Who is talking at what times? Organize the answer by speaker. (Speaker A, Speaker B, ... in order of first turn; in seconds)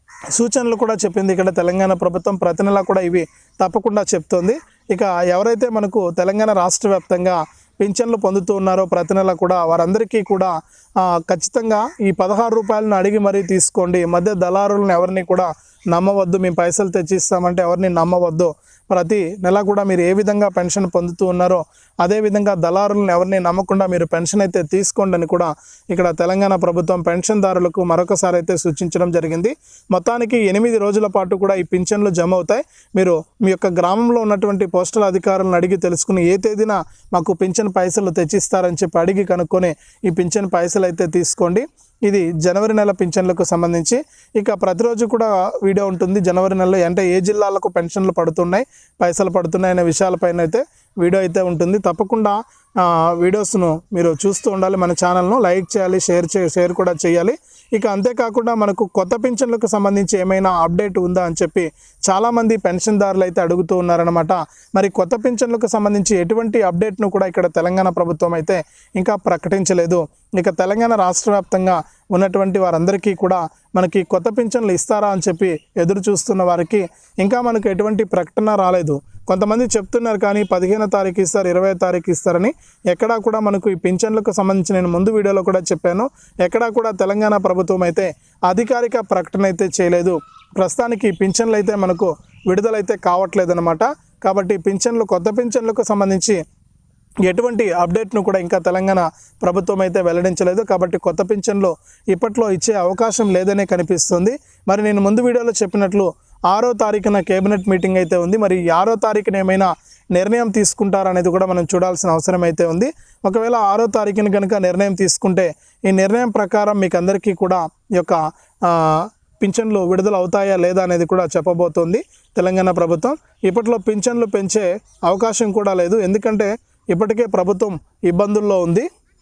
Speaker A: 0.3-96.4, 97.3-128.9